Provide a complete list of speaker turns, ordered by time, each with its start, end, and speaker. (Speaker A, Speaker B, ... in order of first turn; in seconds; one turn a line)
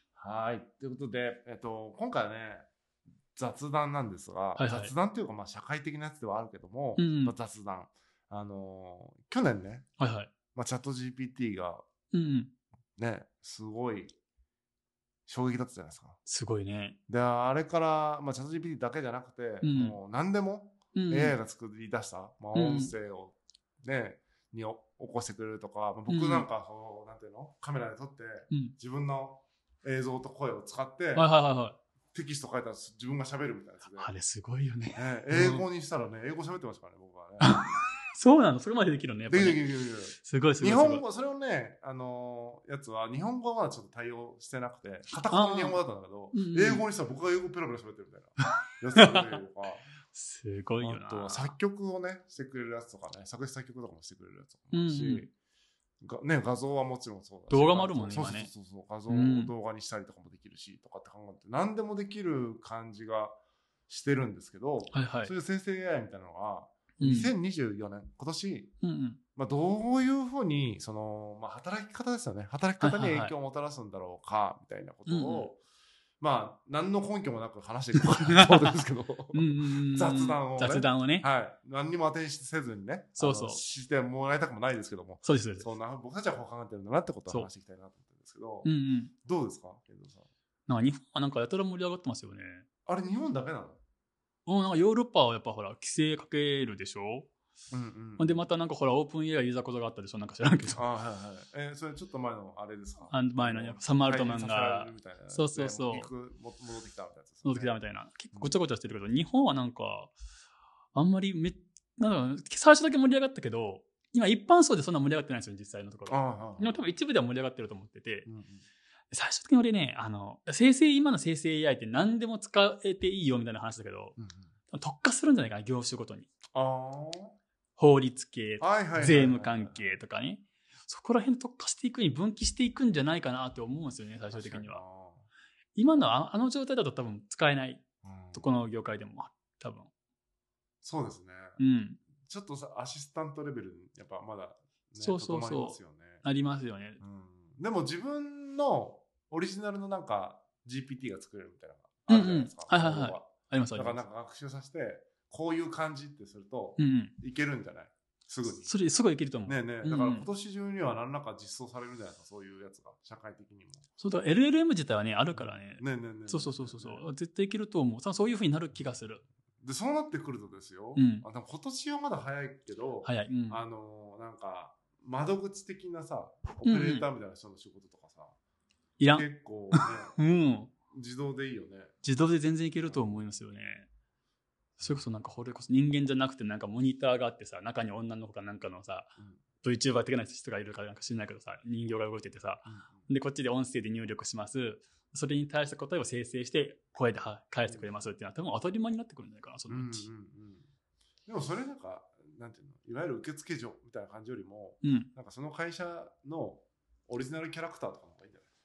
Speaker A: 0.1-2.7
Speaker A: 3.3-9.9
Speaker B: 4.6-4.9
Speaker B: 7.0-7.3
Speaker B: 10.0-10.3
Speaker A: 10.5-11.8
Speaker B: 12.1-12.5
Speaker A: 13.0-14.1
Speaker A: 15.3-16.2
Speaker B: 16.2-17.0
Speaker A: 17.1-31.3
Speaker B: 19.6-20.0
Speaker B: 20.9-21.3
Speaker B: 22.5-22.9
Speaker B: 26.1-26.5
Speaker B: 31.1-31.8
Speaker A: 32.1-34.1
Speaker B: 34.0-35.6
Speaker A: 35.0-37.6
Speaker B: 37.4-41.0
Speaker A: 39.3-49.9
Speaker B: 45.3-45.8
Speaker B: 46.3-46.8
Speaker B: 49.0-49.4
Speaker B: 50.1-51.5
Speaker A: 50.8-55.3
Speaker B: 54.7-55.3
Speaker A: 56.0-68.7
Speaker B: 57.5-58.5
Speaker B: 59.1-59.5
Speaker B: 64.9-65.3
Speaker B: 67.0-67.3
Speaker B: 68.8-69.2
Speaker A: 69.3-75.6
Speaker B: 72.8-73.3
Speaker B: 75.1-75.5
Speaker A: 76.2-88.7
Speaker B: 78.3-78.7
Speaker B: 79.3-81.3
Speaker B: 83.2-83.6
Speaker B: 85.2-85.7
Speaker B: 88.6-89.1
Speaker A: 89.2-90.3
Speaker B: 90.7-92.7
Speaker A: 92.8-93.8
Speaker B: 94.5-97.3
Speaker A: 97.7-98.4
Speaker B: 98.2-100.8
Speaker A: 100.8-107.7
Speaker B: 103.1-106.1
Speaker B: 107.4-110.1
Speaker B: 110.9-118.3
Speaker A: 116.1-116.9
Speaker A: 118.2-118.6
Speaker B: 119.1-124.2
Speaker A: 124.2-124.5
Speaker B: 124.7-126.3
Speaker A: 126.5-127.3
Speaker B: 127.8-134.8
Speaker A: 128.6-130.0
Speaker A: 134.3-135.3
Speaker B: 135.7-139.9
Speaker A: 138.0-138.5
Speaker A: 140.8-141.6
Speaker B: 141.6-142.0
Speaker A: 142.2-146.2
Speaker B: 145.0-147.0
Speaker A: 147.0-158.7
Speaker B: 152.1-154.0
Speaker B: 156.8-157.1
Speaker B: 158.6-160.3
Speaker A: 159.4-163.8
Speaker B: 164.0-169.2
Speaker A: 165.8-167.1
Speaker A: 169.6-178.3
Speaker B: 170.9-171.2
Speaker B: 173.0-173.6
Speaker B: 176.6-177.1
Speaker B: 179.0-180.7
Speaker A: 179.1-180.2
Speaker A: 180.9-181.9
Speaker B: 182.0-183.9
Speaker A: 182.9-183.2
Speaker B: 184.8-200.1
Speaker A: 192.7-193.1
Speaker A: 199.7-200.7
Speaker A: 201.3-208.4
Speaker B: 204.8-205.1